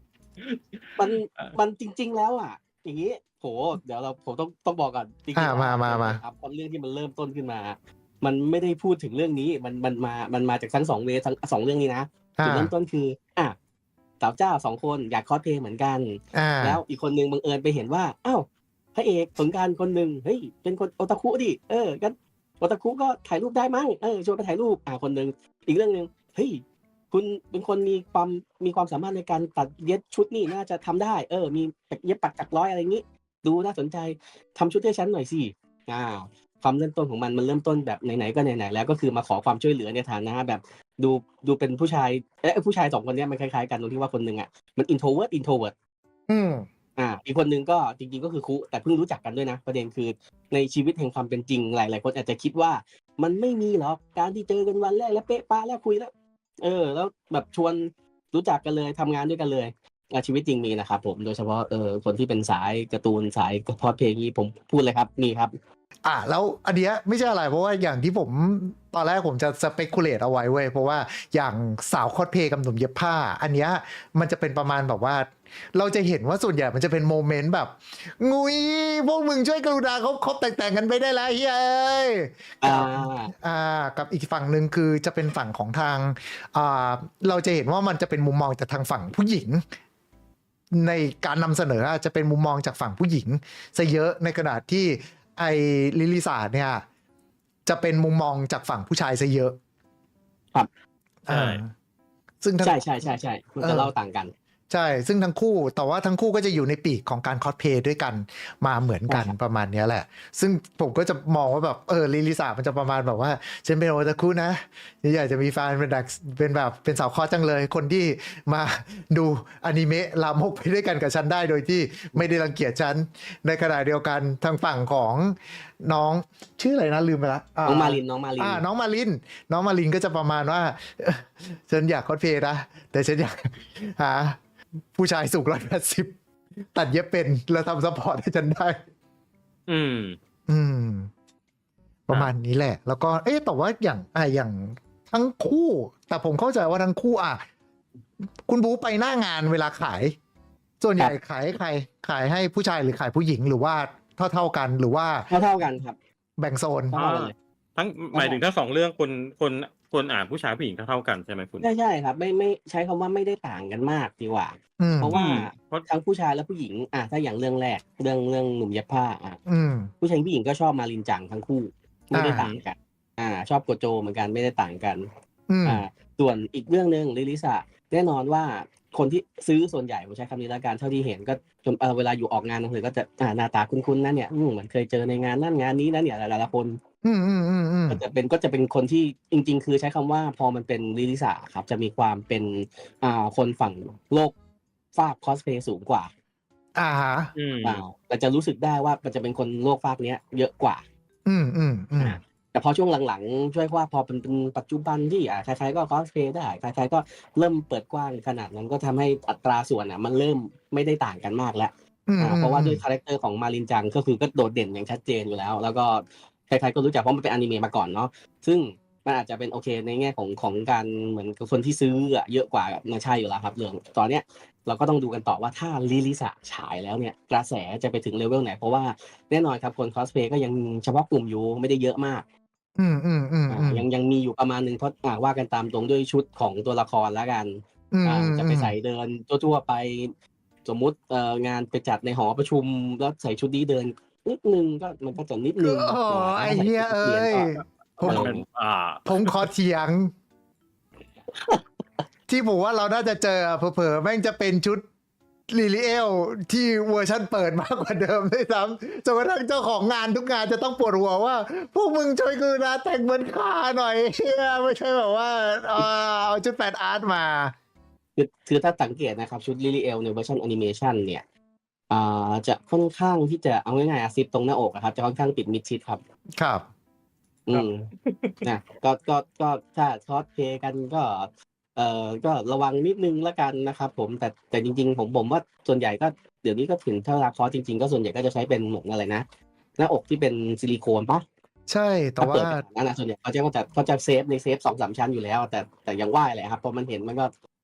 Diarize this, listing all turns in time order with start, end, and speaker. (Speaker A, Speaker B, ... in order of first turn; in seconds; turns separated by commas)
Speaker A: 0.4-1.6, Speaker B: 1.0-13.6, Speaker C: 5.3-6.2, Speaker C: 12.4-12.7, Speaker B: 14.2-45.7, Speaker C: 16.3-16.8, Speaker C: 46.3-46.7, Speaker B: 47.0-65.5, Speaker C: 66.0-89.6, Speaker B: 82.6-83.3, Speaker C: 90.7-96.8, Speaker C: 97.7-99.6, Speaker C: 101.3-101.7, Speaker A: 101.3-101.6, Speaker C: 102.4-102.8, Speaker B: 102.6-104.3, Speaker C: 103.6-103.9, Speaker C: 104.7-134.4, Speaker B: 109.1-109.3, Speaker B: 127.7-128.6, Speaker C: 134.9-136.2, Speaker C: 136.7-138.8, Speaker A: 139.7-140.2, Speaker C: 140.5-141.1, Speaker C: 142.1-147.4, Speaker C: 148.5-150.2, Speaker C: 150.8-155.3, Speaker B: 155.3-156.0, Speaker C: 156.4-157.0, Speaker B: 156.9-157.3, Speaker A: 156.9-161.7, Speaker B: 158.1-158.4, Speaker B: 161.6-169.4, Speaker C: 164.8-165.2, Speaker A: 165.1-165.9, Speaker C: 169.5-169.9, Speaker B: 170.0-175.1, Speaker C: 172.1-172.5, Speaker A: 172.3-172.6, Speaker C: 175.5-175.8, Speaker B: 175.7-186.8, Speaker C: 187.0-188.0, Speaker B: 187.9-194.3, Speaker B: 194.9-196.1, Speaker C: 196.8-197.3, Speaker A: 197.3-197.8, Speaker B: 197.6-200.8, Speaker C: 201.3-202.2, Speaker B: 202.0-232.3, Speaker C: 212.1-212.8, Speaker C: 232.8-233.8, Speaker B: 233.5-248.4, Speaker C: 237.9-238.8, Speaker C: 245.6-248.3, Speaker A: 248.0-249.5, Speaker C: 249.1-250.1, Speaker B: 251.3-251.6, Speaker C: 252.3-254.8, Speaker C: 255.5-267.5, Speaker B: 268.2-271.2, Speaker B: 271.9-276.0, Speaker C: 276.4-276.6, Speaker B: 277.5-277.9, Speaker A: 277.5-278.4, Speaker B: 278.4-289.2, Speaker B: 289.8-291.2, Speaker C: 291.7-292.6, Speaker B: 292.2-297.3